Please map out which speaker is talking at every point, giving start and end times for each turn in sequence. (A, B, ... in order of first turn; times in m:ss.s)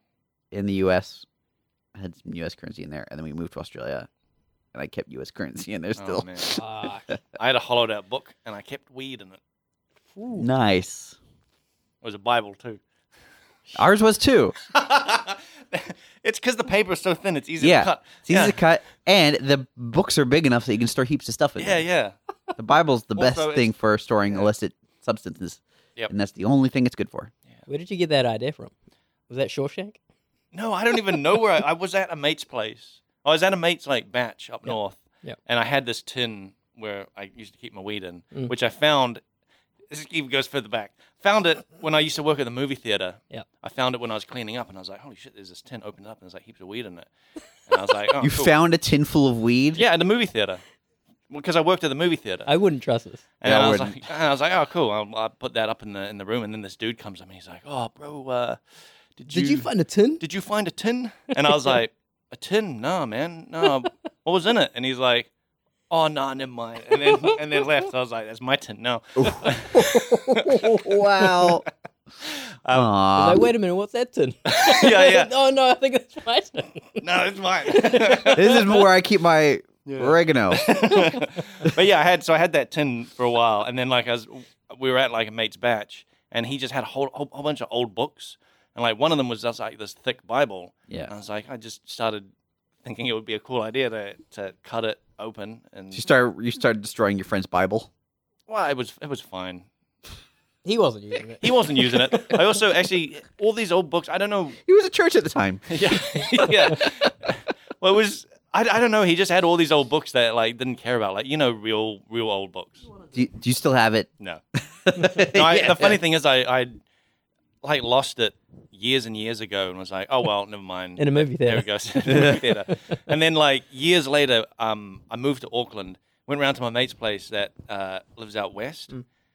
0:00.5-0:01.2 A
0:01.9-0:04.1 A
0:04.7-0:06.6 A
0:06.0-0:06.6 B
0:06.6-0:07.0 C
0:07.2-0:09.4 B
0:10.1-0:10.5 C
0:10.3-0:11.2 A
0:12.0-0:12.8 B
0:13.7-0:14.5 A
0:14.6-0:18.6 B
0:17.6-0:21.8 A
0:21.6-0:22.2 B
0:22.6-0:27.3 A
0:23.1-0:24.5 B
0:27.7-0:28.7 C
0:29.3-0:30.0 C
0:30.5-0:39.2 B
0:39.9-0:47.1 B
0:47.6-0:48.5 B
0:48.2-0:49.8 A
0:49.8-0:50.6 B
0:51.3-0:52.5 B
0:52.5-0:53.2 C
0:53.4-0:58.6 B
0:53.4-0:54.0 A
0:59.2-0:59.7 B
0:59.3-1:00.2 C
1:00.2-1:05.3 B
1:01.5-1:01.8 C
1:05.9-1:10.7 B
1:06.9-1:07.6 C
1:09.2-1:09.8 A
1:09.7-1:11.2 C
1:10.6-1:11.6 A
1:12.2-1:12.9 B
1:12.7-1:13.5 A
1:13.2-1:17.0 C
1:14.4-1:15.3 B
1:17.0-1:18.6 B
1:17.7-1:18.8 C
1:18.3-1:20.7 A
1:19.9-1:32.3 B
1:20.9-1:21.2 C
1:32.8-1:36.1 B
1:35.9-1:37.9 A
1:38.5-1:39.6 B
1:40.6-1:42.6 C
1:41.4-1:44.6 B
1:44.6-1:45.6 A
1:45.7-1:52.8 B
1:53.1-1:56.0 A
1:55.2-1:56.8 B
1:57.6-2:08.9 B
2:01.0-2:02.9 C
2:02.1-2:02.4 A